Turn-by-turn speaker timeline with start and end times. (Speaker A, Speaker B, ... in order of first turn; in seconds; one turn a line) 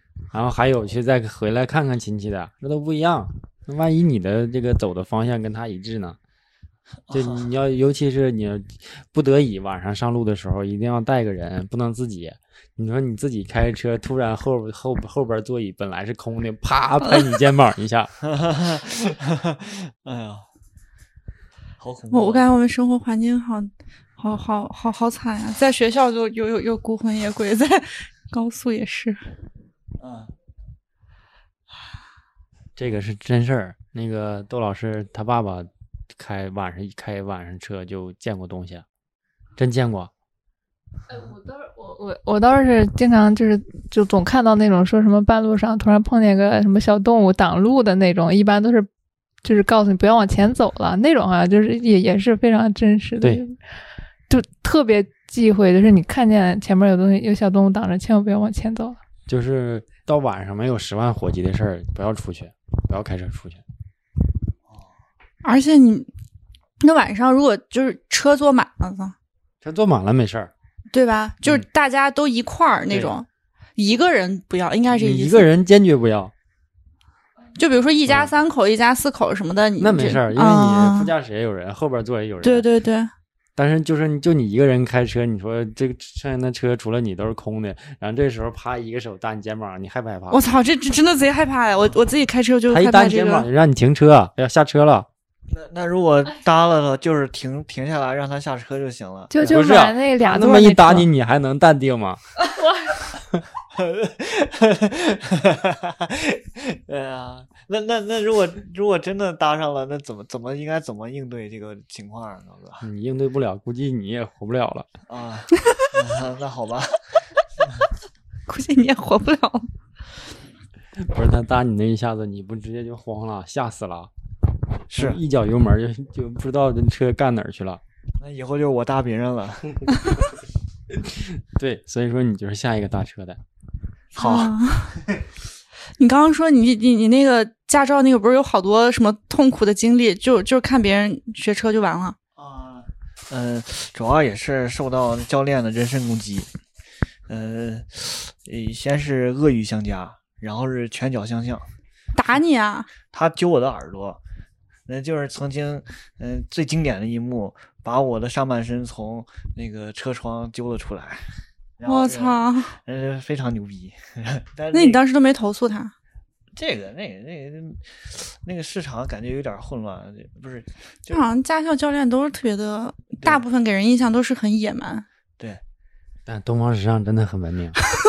Speaker A: 0.3-6.2
Speaker B: 7.1-7.5
Speaker A: 7.1-18.1
Speaker B: 18.2-20.4
Speaker B: 21.8-22.5
Speaker C: 22.1-29.2
Speaker B: 30.0-30.3
Speaker A: 32.8-38.9
Speaker A: 39.6-40.1
Speaker D: 41.1-48.9
Speaker D: 49.4-53.5
Speaker D: 54.3-59.0
Speaker A: 59.3-63.6
Speaker C: 65.4-66.1
Speaker C: 66.8-69.1
Speaker A: 69.6-70.5
Speaker C: 70.9-73.3
Speaker A: 72.9-73.2
Speaker C: 73.8-75.5
Speaker A: 74.9-76.3
Speaker C: 77.6-81.1
Speaker A: 78.1-78.3
Speaker A: 79.8-82.7
Speaker C: 82.4-83.1
Speaker A: 83.6-90.4
Speaker C: 90.3-93.5
Speaker A: 92.7-95.1
Speaker B: 95.5-99.3
Speaker D: 99.3-101.1
Speaker A: 99.4-102.2
Speaker B: 103.7-112.8
Speaker A: 112.8-114.9
Speaker B: 115.1-117.8
Speaker C: 118.5-119.7
Speaker A: 121.0-124.1
Speaker B: 124.9-125.2
Speaker A: 124.9-127.8
Speaker B: 128.2-129.8
Speaker A: 130.9-133.4
Speaker B: 134.2-134.5
Speaker C: 134.2-134.9
Speaker C: 136.0-142.2
Speaker B: 142.4-146.5
Speaker B: 147.3-151.7
Speaker C: 152.2-152.9
Speaker B: 153.1-154.2
Speaker B: 154.9-161.2
Speaker B: 161.8-165.0
Speaker C: 161.9-162.8
Speaker C: 164.7-165.9
Speaker B: 166.6-171.2
Speaker C: 171.1-175.1
Speaker A: 176.3-177.8